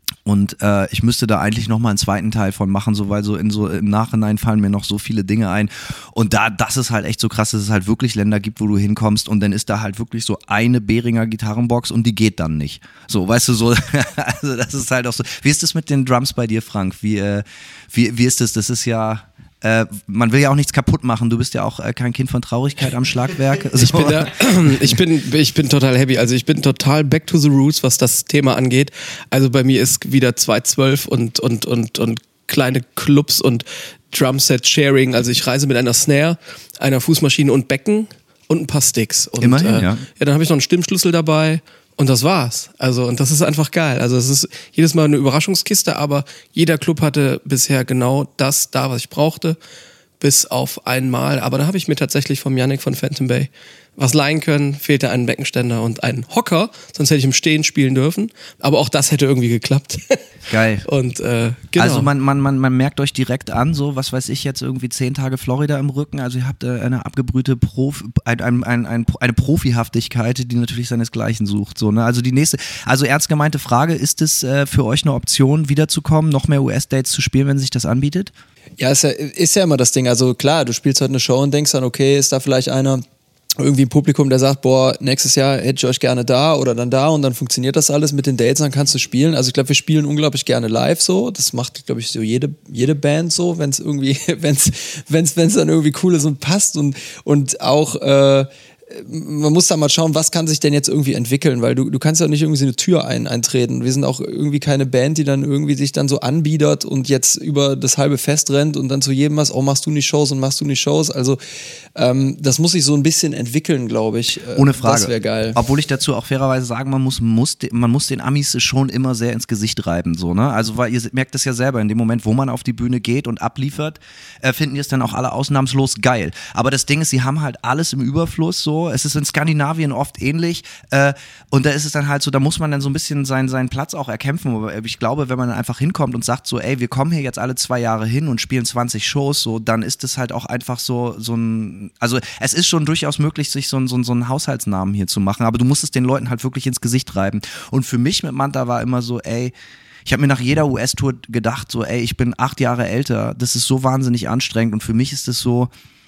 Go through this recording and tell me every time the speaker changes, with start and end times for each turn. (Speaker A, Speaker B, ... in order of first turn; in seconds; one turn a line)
Speaker A: 0.3-24.3
Speaker B: 23.8-49.6
Speaker A: 39.4-40.0
Speaker B: 50.2-60.2
Speaker A: 60.5-60.8
Speaker B: 60.8-62.1
Speaker A: 61.8-78.3
Speaker C: 78.8-83.0
Speaker C: 83.6-111.4
Speaker C: 112.0-115.6
Speaker A: 114.5-149.5
Speaker A: 150.1-155.7